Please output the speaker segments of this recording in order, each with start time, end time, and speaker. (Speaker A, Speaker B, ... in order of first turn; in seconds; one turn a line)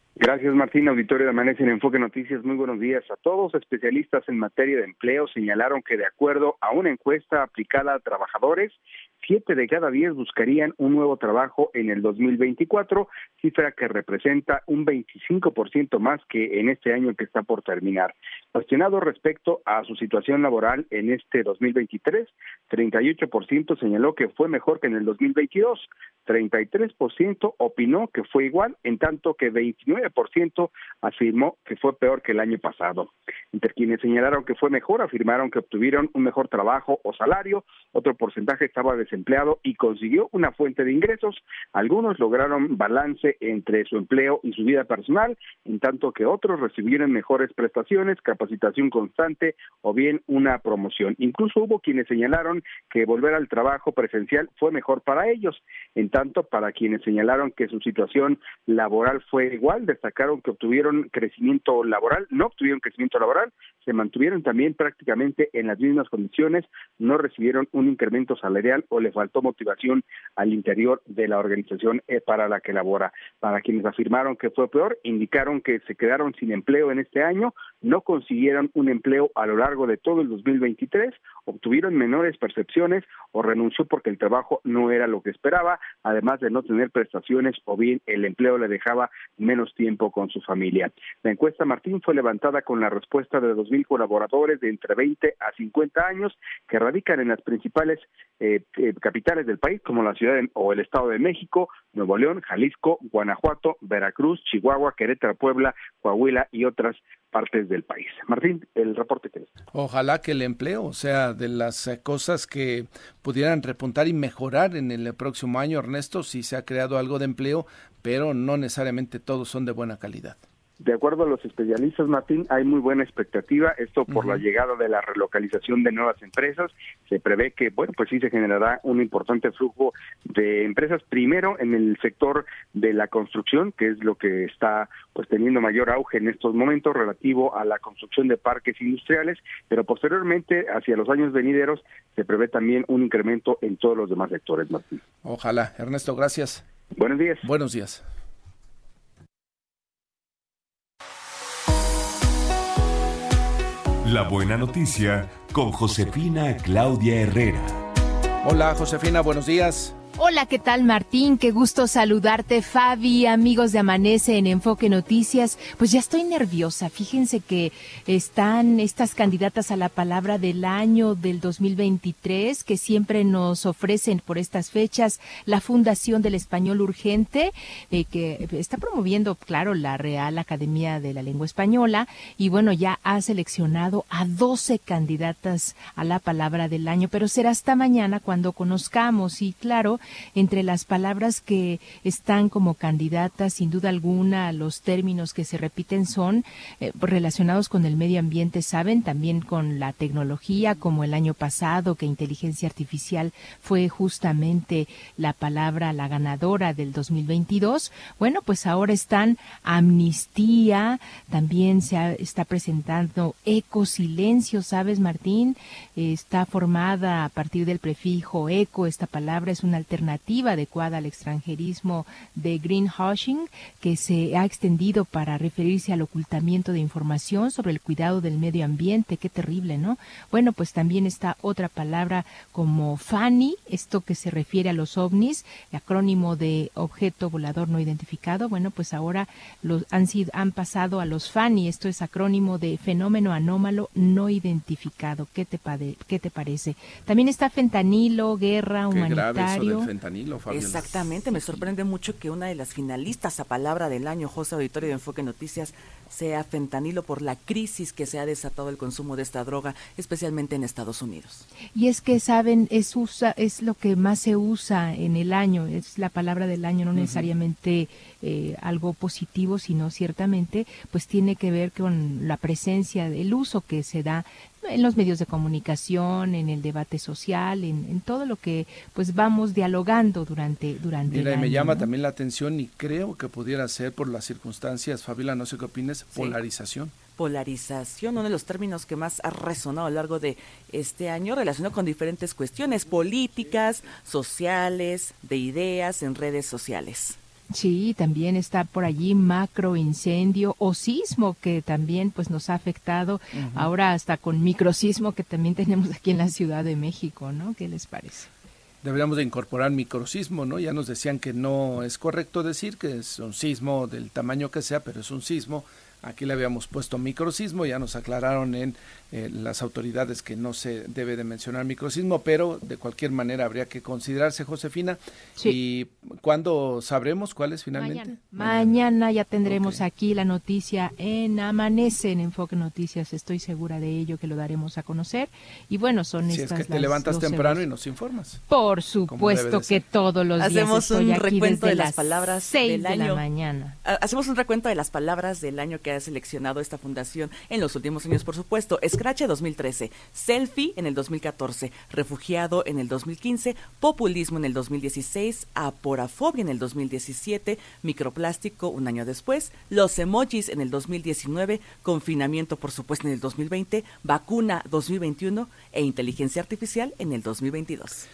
Speaker A: 0.2-109.5
Speaker B: 109.7-120.4
Speaker A: 120.8-145.0
Speaker B: 124.1-124.4
Speaker B: 145.2-146.6
Speaker A: 147.0-147.5
Speaker B: 147.4-148.0
Speaker C: 154.0-157.8
Speaker B: 158.4-159.9
Speaker D: 160.2-249.9
Speaker B: 248.9-251.1
Speaker E: 250.5-261.4
Speaker D: 261.7-281.9
Speaker B: 266.9-267.3
Speaker B: 281.1-286.9
Speaker E: 287.1-297.2
Speaker D: 297.5-308.3
Speaker B: 303.3-303.7
Speaker B: 308.8-328.8
Speaker D: 327.8-337.7
Speaker B: 329.4-329.8
Speaker B: 336.2-338.4
Speaker D: 338.5-343.8
Speaker B: 339.1-339.8
Speaker E: 340.4-343.2
Speaker E: 343.8-368.1